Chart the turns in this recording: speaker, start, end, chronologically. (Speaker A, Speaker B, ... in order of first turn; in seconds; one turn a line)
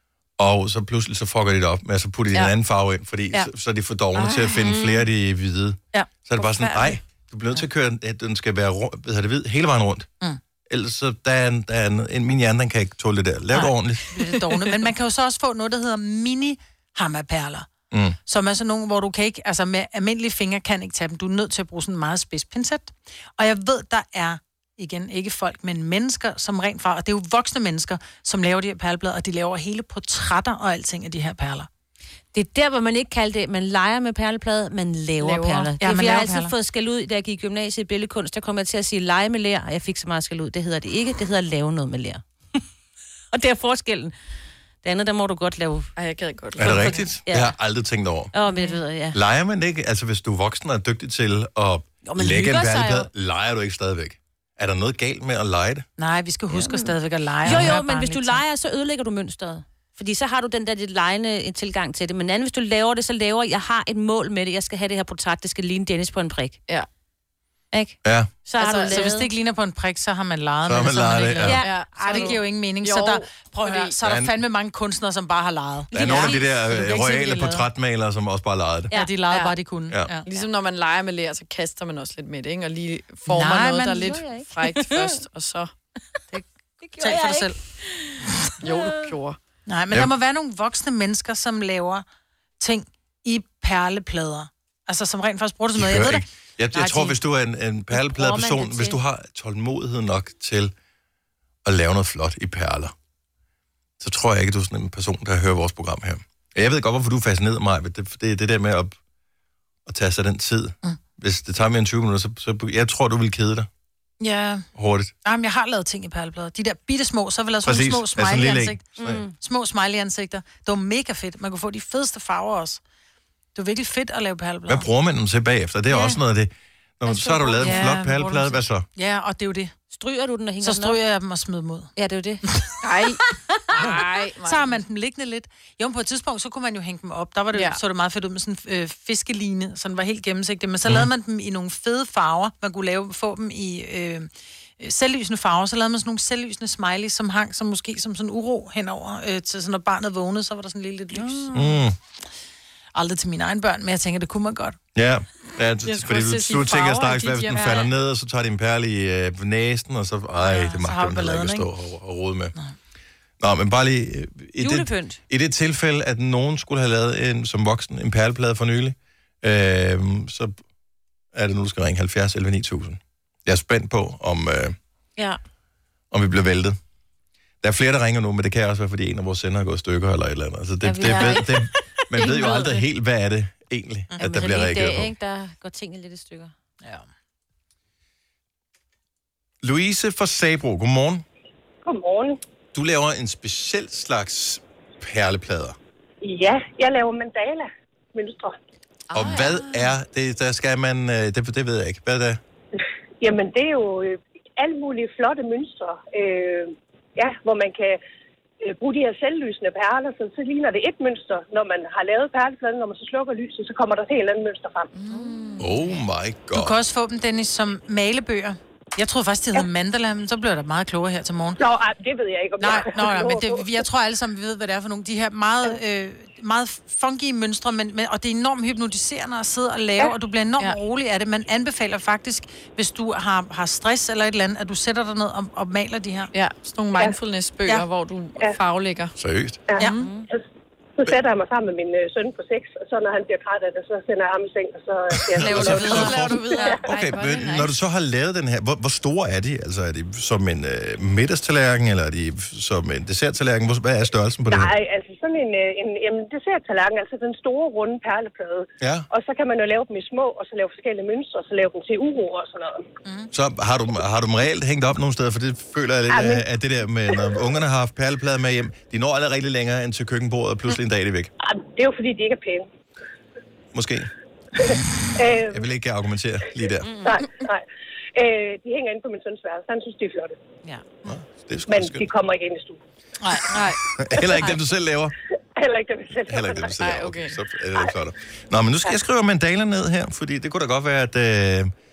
Speaker A: 0.4-10.1
Speaker B: 4.2-4.7
Speaker B: 6.3-7.0
Speaker A: 10.7-14.1
Speaker C: 13.5-17.7
Speaker A: 17.9-18.2
Speaker C: 18.3-31.7
Speaker D: 32.3-42.6
Speaker B: 35.2-35.7
Speaker C: 35.8-36.5
Speaker D: 43.3-44.1
Speaker D: 44.8-45.9
Speaker B: 46.0-47.0
Speaker A: 46.6-48.3
Speaker D: 46.6-47.5
Speaker D: 48.3-49.2
Speaker A: 49.1-55.8
Speaker D: 52.2-53.0
Speaker C: 56.0-58.4
Speaker D: 56.5-66.6
Speaker D: 67.7-69.3
Speaker A: 68.0-68.3
Speaker B: 68.5-69.1
Speaker C: 68.7-77.6
Speaker A: 70.6-71.6
Speaker D: 71.4-72.3
Speaker B: 71.6-73.9
Speaker A: 74.0-74.3
Speaker A: 75.9-78.9
Speaker D: 75.9-76.4
Speaker C: 78.9-80.2
Speaker B: 80.2-85.7
Speaker C: 83.3-84.1
Speaker D: 84.0-85.2
Speaker D: 86.3-89.1
Speaker C: 87.0-87.6
Speaker B: 88.6-89.4
Speaker C: 89.7-92.0
Speaker C: 92.6-96.2
Speaker A: 95.7-100.7
Speaker C: 96.8-97.1
Speaker D: 97.9-99.0
Speaker A: 101.6-102.9
Speaker A: 104.0-109.0
Speaker A: 109.8-113.7
Speaker C: 114.2-114.7
Speaker A: 114.7-115.1
Speaker C: 115.2-122.8
Speaker A: 117.6-119.2
Speaker D: 119.0-119.3
Speaker C: 123.5-124.9
Speaker A: 124.7-128.8
Speaker C: 127.1-129.7
Speaker D: 129.9-131.0
Speaker C: 130.6-131.9
Speaker D: 131.9-132.4
Speaker C: 132.4-132.7
Speaker B: 132.8-133.2
Speaker B: 133.7-134.8
Speaker C: 133.8-144.3
Speaker B: 137.5-137.8
Speaker C: 144.8-151.7
Speaker A: 151.5-151.9
Speaker C: 152.9-154.8
Speaker A: 154.9-162.5
Speaker B: 155.8-157.8
Speaker C: 160.4-161.7
Speaker A: 163.4-170.6
Speaker D: 164.6-165.2
Speaker A: 171.3-174.8
Speaker A: 176.1-176.8
Speaker A: 177.6-185.1
Speaker D: 180.8-181.5
Speaker D: 182.1-182.8
Speaker D: 184.2-186.5
Speaker A: 189.6-191.2
Speaker E: 191.8-192.4
Speaker A: 192.7-195.8
Speaker E: 196.2-198.6
Speaker B: 199.1-199.9
Speaker A: 199.1-202.4
Speaker E: 203.2-208.0
Speaker E: 208.6-214.9
Speaker B: 214.9-215.7
Speaker A: 215.6-216.8
Speaker C: 216.5-221.6
Speaker E: 221.6-223.7
Speaker C: 222.6-236.3
Speaker B: 236.3-239.1
Speaker A: 239.2-239.6
Speaker E: 239.7-240.4
Speaker B: 239.8-240.1
Speaker D: 239.8-240.3
Speaker E: 241.0-246.8
Speaker A: 245.1-254.7
Speaker C: 245.4-246.8
Speaker B: 245.5-247.7
Speaker E: 254.5-262.8
Speaker A: 258.8-259.1
Speaker A: 263.3-271.3
Speaker E: 266.1-266.4
Speaker E: 267.1-267.4
Speaker E: 271.4-272.7
Speaker A: 273.7-274.1
Speaker E: 274.5-275.7
Speaker A: 275.4-276.9
Speaker D: 276.8-277.2
Speaker E: 277.0-277.6
Speaker E: 278.1-280.4
Speaker A: 281.0-282.1
Speaker E: 281.7-282.8
Speaker C: 283.2-283.6
Speaker B: 283.5-283.8
Speaker A: 284.0-285.1
Speaker E: 285.6-286.7
Speaker A: 286.2-291.7
Speaker B: 286.8-287.4